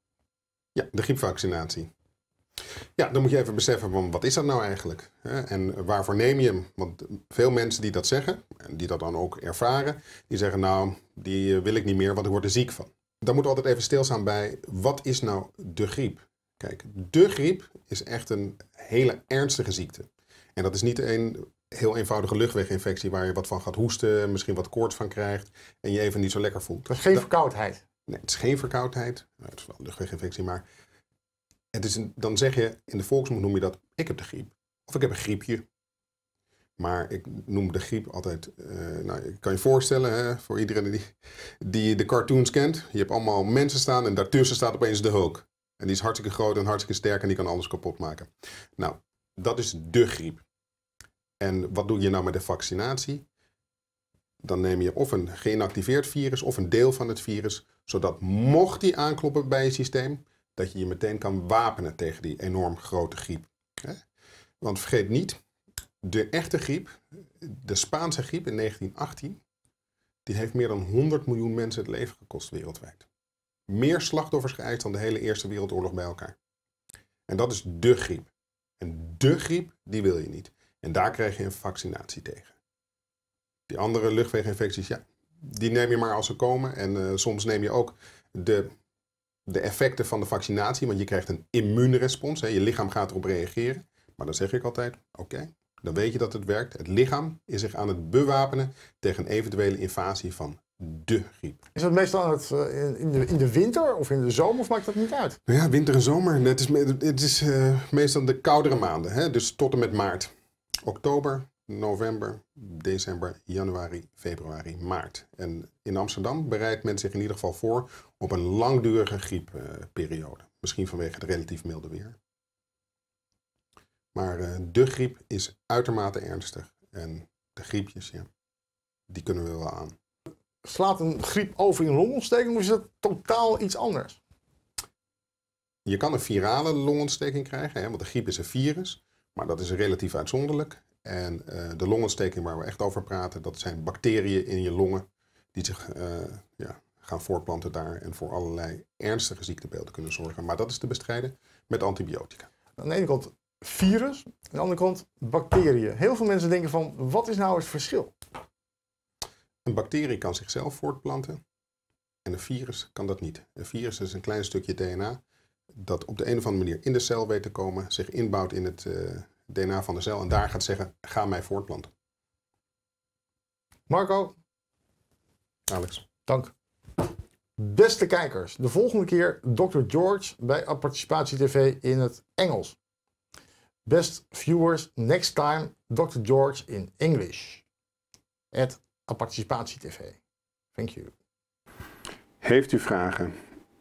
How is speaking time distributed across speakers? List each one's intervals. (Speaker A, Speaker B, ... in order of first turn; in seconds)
Speaker A: 0.7-1.9, 3.0-27.2, 28.1-30.6, 31.7-35.6, 36.8-50.4, 51.4-53.2, 54.4-64.0, 64.6-65.4, 66.0-69.4, 70.2-73.0, 73.7-76.3, 77.3-78.3, 78.8-82.5, 83.7-88.7, 89.5-101.6, 105.5-110.3, 110.8-122.2, 124.1-128.3, 129.1-129.9, 135.8-152.5, 159.6-161.4, 162.2-165.2, 165.8-171.9, 175.7-176.0, 192.4-193.3
Speaker B: 26.9-27.8, 101.7-105.4, 130.6-134.2, 152.8-158.1, 173.9-174.3, 176.3-176.5, 177.6-182.8, 183.8-187.6, 188.5-190.2, 190.7-191.1